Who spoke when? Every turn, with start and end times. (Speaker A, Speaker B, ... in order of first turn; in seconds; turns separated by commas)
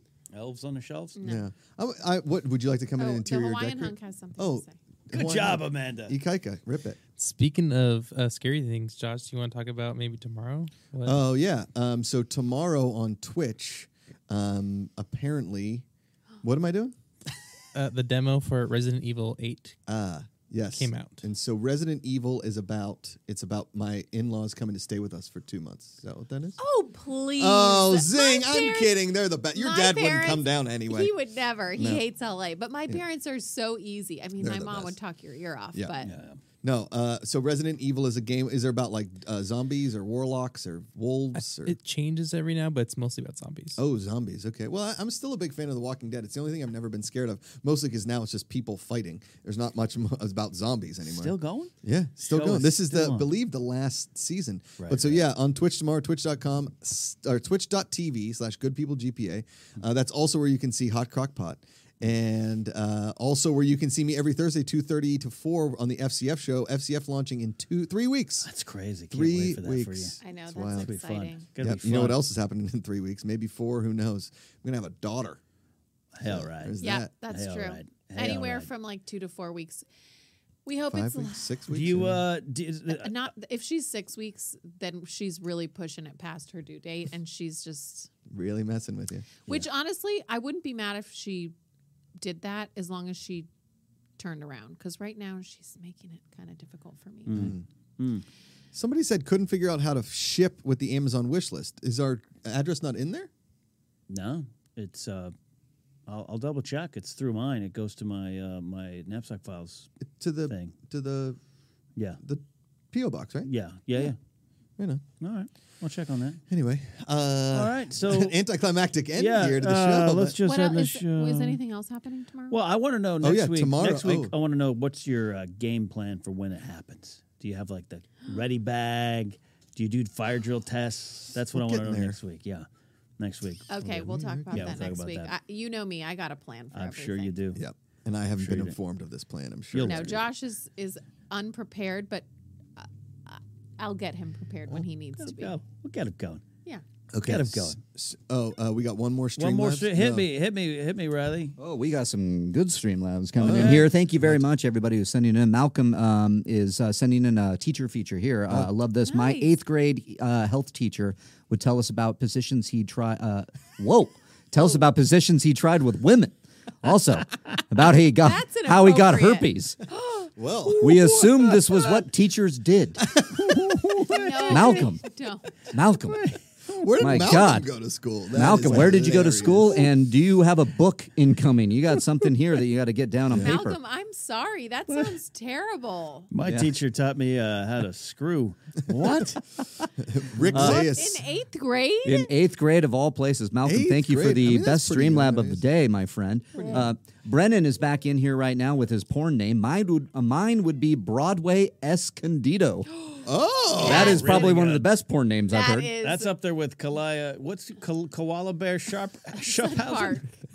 Speaker A: 0.3-1.2, Speaker B: 1.2-1.4, Speaker C: 1.2-7.0, Speaker B: 3.0-4.8, Speaker A: 5.1-6.2, Speaker D: 7.2-11.2, Speaker C: 11.0-15.8, Speaker C: 16.4-16.9, Speaker D: 17.7-19.8, Speaker C: 19.9-26.6, Speaker D: 20.7-21.3, Speaker B: 26.6-36.1, Speaker C: 27.4-31.1, Speaker C: 31.8-32.0, Speaker C: 34.4-34.9, Speaker A: 36.0-36.4, Speaker C: 36.6-41.8, Speaker D: 41.4-43.8, Speaker C: 43.8-68.5, Speaker A: 51.0-53.3, Speaker A: 54.8-55.2, Speaker A: 68.5-70.2, Speaker C: 69.1-70.9, Speaker B: 70.2-71.5, Speaker A: 70.8-72.2, Speaker C: 71.6-75.4, Speaker A: 76.1-78.7, Speaker C: 76.2-77.1, Speaker B: 76.8-79.8, Speaker B: 80.7-81.5, Speaker C: 80.9-82.2, Speaker A: 81.7-83.2, Speaker B: 82.9-88.1, Speaker C: 88.3-89.3, Speaker B: 89.5-91.5, Speaker B: 92.2-93.5, Speaker B: 94.2-97.5, Speaker A: 97.3-98.2, Speaker C: 97.3-97.6, Speaker C: 98.7-103.3, Speaker A: 104.1-105.3, Speaker A: 106.1-109.9, Speaker C: 110.0-111.4, Speaker A: 110.5-110.7, Speaker C: 112.2-114.1, Speaker A: 113.5-114.2, Speaker A: 115.2-116.4, Speaker C: 116.5-120.4, Speaker A: 117.5-118.4, Speaker A: 119.2-121.6, Speaker B: 120.5-122.6, Speaker A: 122.5-132.6, Speaker C: 123.2-124.3, Speaker C: 131.5-132.2, Speaker A: 133.2-133.7, Speaker B: 133.7-137.3, Speaker C: 133.8-134.9, Speaker A: 134.5-135.3, Speaker A: 136.7-137.6, Speaker C: 137.6-140.2, Speaker A: 138.3-138.8, Speaker A: 139.7-140.2, Speaker B: 139.8-142.3, Speaker B: 142.8-145.6, Speaker A: 145.2-146.4, Speaker C: 147.1-150.3, Speaker A: 147.2-147.8, Speaker A: 149.4-151.5, Speaker E: 151.6-169.8, Speaker A: 153.4-153.9, Speaker C: 153.4-153.9, Speaker B: 159.0-159.5, Speaker B: 168.2-170.3, Speaker C: 170.4-171.1, Speaker E: 170.8-173.1, Speaker A: 170.9-171.8, Speaker C: 173.2-173.9, Speaker A: 173.3-174.9, Speaker B: 174.1-175.6, Speaker E: 174.5-175.0, Speaker E: 175.7-176.2, Speaker A: 176.1-176.9, Speaker C: 176.8-179.9, Speaker E: 177.0-177.7, Speaker E: 178.3-183.8, Speaker B: 183.3-186.3, Speaker A: 186.3-189.7, Speaker E: 186.4-186.7, Speaker C: 189.0-189.3, Speaker C: 190.0-191.2, Speaker E: 190.5-190.9, Speaker B: 190.5-192.3, Speaker E: 192.0-202.9, Speaker C: 193.6-195.6, Speaker B: 202.9-204.5, Speaker C: 203.2-204.3, Speaker A: 203.8-204.9, Speaker E: 203.8-205.9, Speaker B: 205.5-206.3, Speaker A: 206.0-210.3, Speaker B: 209.4-210.3